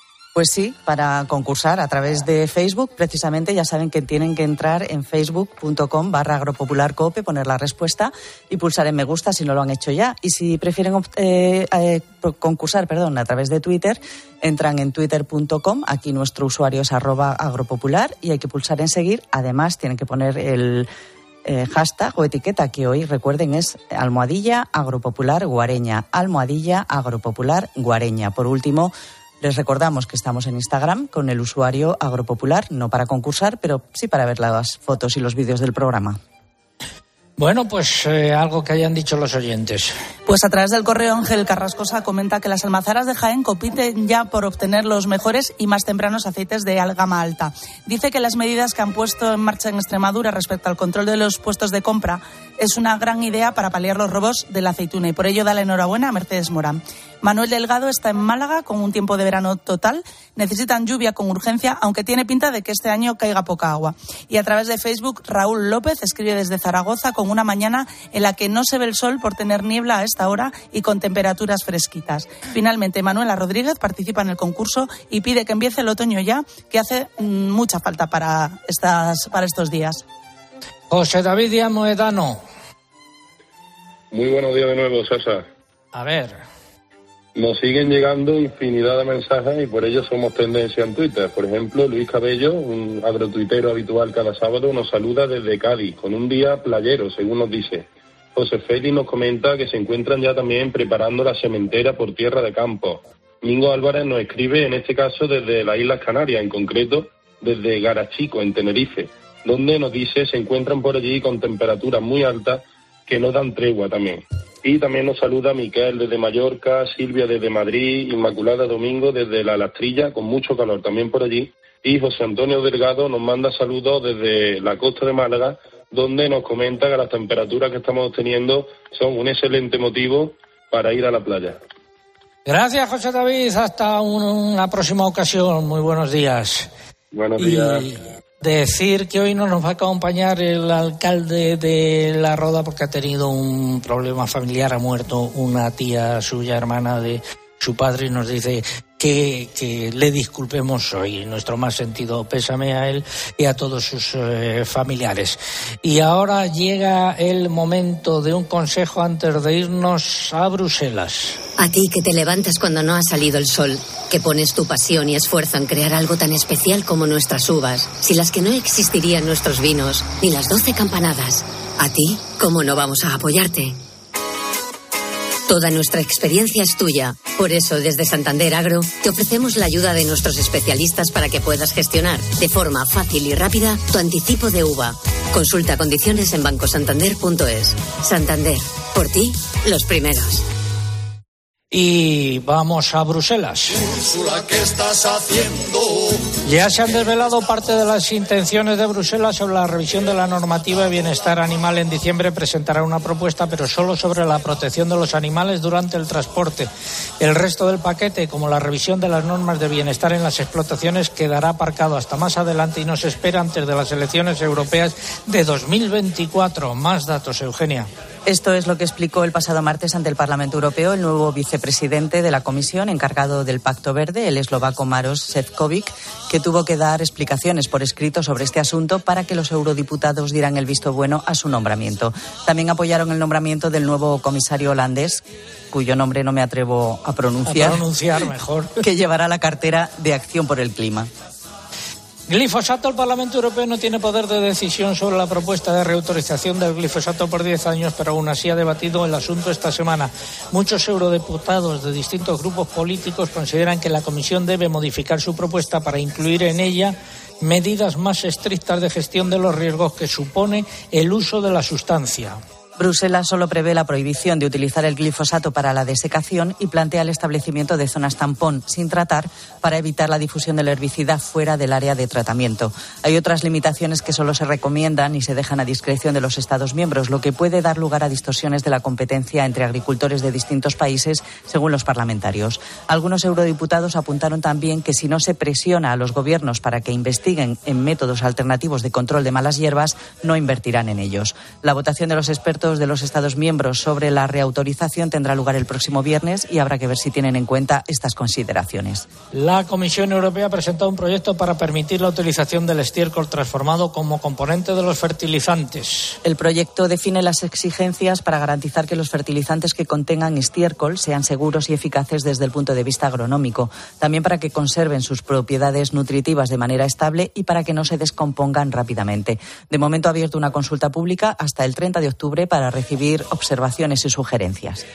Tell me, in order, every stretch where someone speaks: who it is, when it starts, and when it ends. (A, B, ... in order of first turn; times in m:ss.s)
0:00.4-0:20.9 A
0:21.4-0:36.2 A
0:37.4-0:39.9 B
0:40.3-1:20.0 C
1:20.9-1:22.4 B
1:24.1-1:25.5 D
1:25.9-1:26.4 B
1:27.4-2:11.6 D
2:12.5-2:16.7 B
2:17.1-2:17.9 D
2:17.4-2:41.4 B
2:41.6-2:53.8 E
2:55.5-3:10.4 E
3:11.7-3:13.8 B
3:16.4-3:26.7 B
3:27.2-3:37.9 B
3:38.3-3:57.8 A
3:57.5-3:58.8 B
3:58.8-4:01.1 A
4:02.3-4:22.4 B
4:22.8-4:59.1 A
4:59.3-5:06.2 B
5:06.2-5:24.8 A